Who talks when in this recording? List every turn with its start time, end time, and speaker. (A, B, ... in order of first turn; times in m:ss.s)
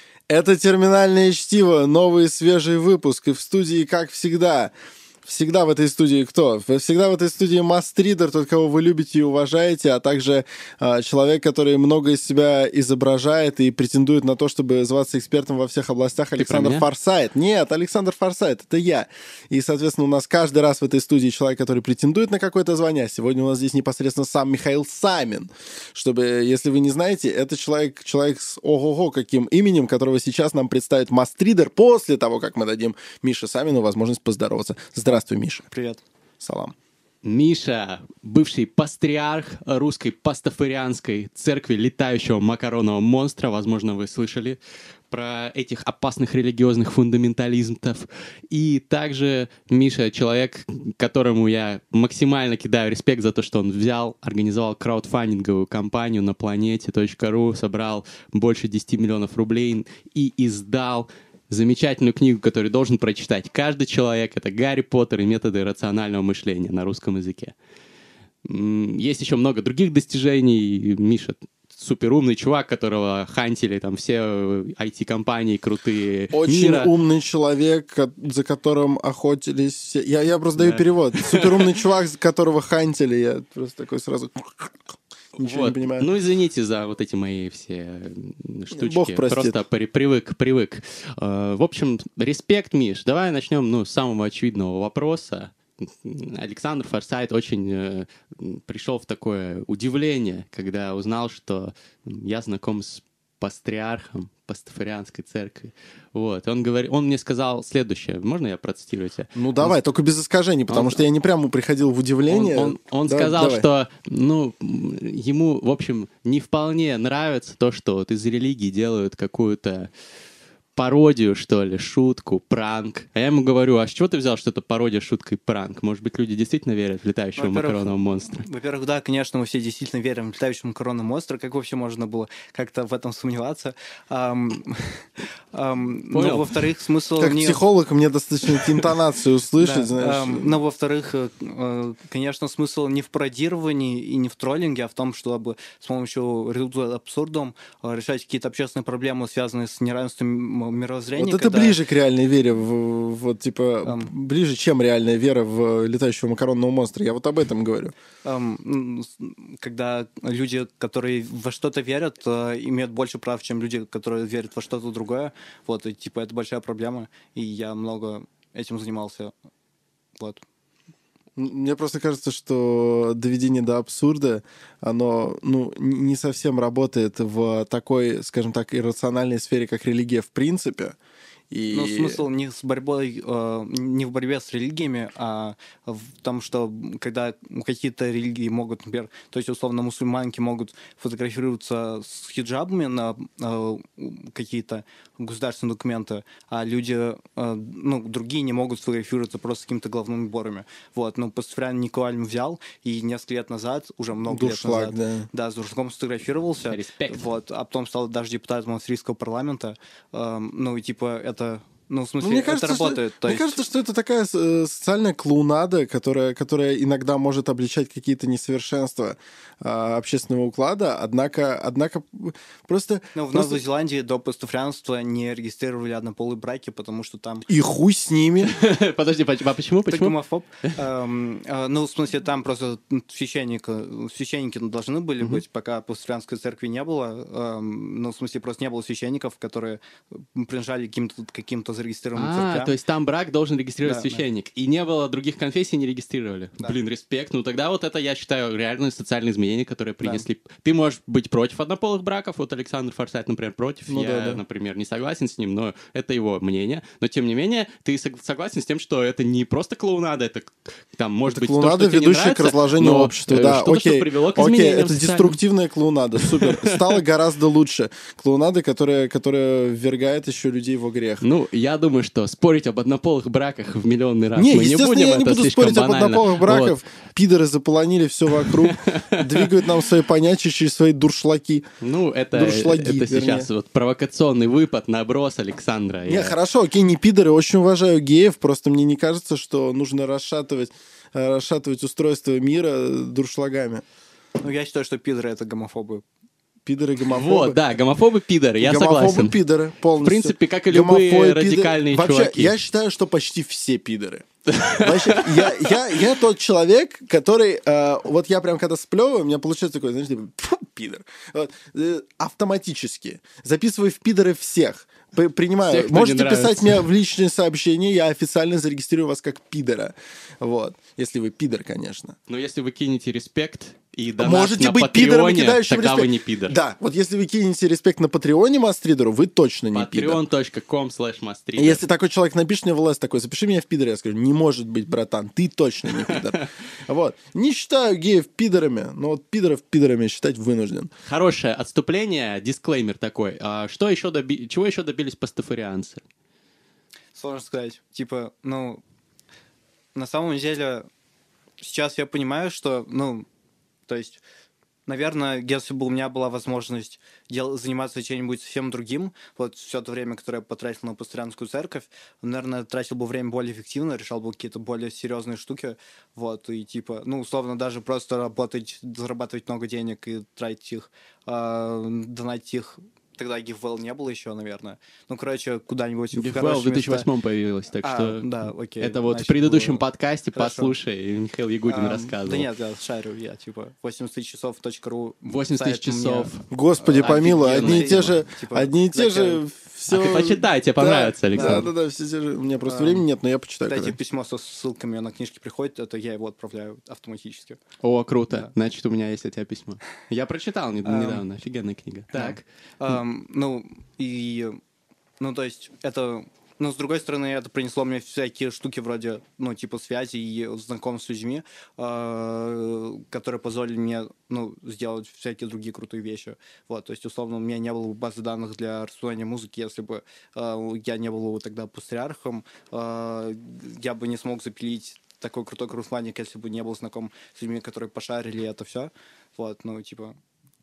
0:00.3-0:04.7 A
0:05.2-0:35.7 A
0:16.4-0:16.8 B
0:35.7-0:36.0 C
0:36.4-0:36.7 A
0:37.2-0:44.6 B
0:45.1-1:07.5 B
1:08.4-1:16.9 B
1:16.3-1:26.1 A
1:20.6-1:21.8 B
1:25.4-1:49.8 B
1:28.7-1:29.6 A
1:49.3-1:53.6 A
1:50.7-1:51.0 B
1:52.3-1:59.9 B
2:00.8-2:08.5 B
2:07.4-2:07.9 C
2:08.4-2:17.6 C
2:16.1-2:16.6 B
2:17.2-2:20.6 A
2:19.6-2:31.8 C
2:31.2-2:37.9 A
2:33.8-2:34.1 C
2:38.2-2:49.3 C
2:50.2-2:50.4 C
2:51.4-3:01.0 A
3:01.5-3:02.2 A
3:01.7-3:33.6 C
3:24.3-3:25.3 A
3:26.7-3:27.2 B
3:32.2-3:43.6 A
3:43.1-3:47.5 C
3:47.5-3:48.5 A
3:48.4-3:50.7 B
3:49.9-4:02.7 C
4:02.1-4:25.4 B
4:03.8-4:04.2 C
4:13.9-4:14.4 A
4:21.3-4:31.2 A
4:26.2-4:27.0 B
4:31.2-4:36.8 B
4:34.3-4:41.6 A
4:38.4-4:39.6 B
4:41.8-4:46.4 B
4:42.3-4:43.5 A
4:46.1-4:53.8 A
4:54.4-4:56.0 C
4:56.6-4:57.6 A
4:57.1-4:59.4 B
4:58.6-5:04.2 A
5:00.0-5:02.5 B
5:04.5-5:05.7 B
5:04.8-5:22.2 A
5:15.7-5:16.9 B
5:22.3-5:26.6 B
5:24.2-5:30.2 A
5:29.7-5:31.8 B
5:31.6-5:40.9 A
5:36.0-5:36.4 B
5:41.0-5:46.0 B
5:47.2-5:48.8 C
5:49.9-5:50.9 C
5:51.6-5:53.2 C
5:53.9-5:54.2 C
5:54.9-6:17.1 C
6:16.1-6:22.5 B
6:17.8-6:19.8 C
6:20.3-6:20.7 C
6:21.6-6:29.4 C
6:25.3-6:28.2 B
6:26.5-6:34.0 A
6:29.9-6:31.7 B
6:31.3-6:31.7 C
6:32.6-6:33.0 C
6:33.6-6:37.6 C
6:37.8-6:42.4 B
6:40.8-6:41.2 C
6:42.1-6:44.6 C
6:45.2-7:10.2 C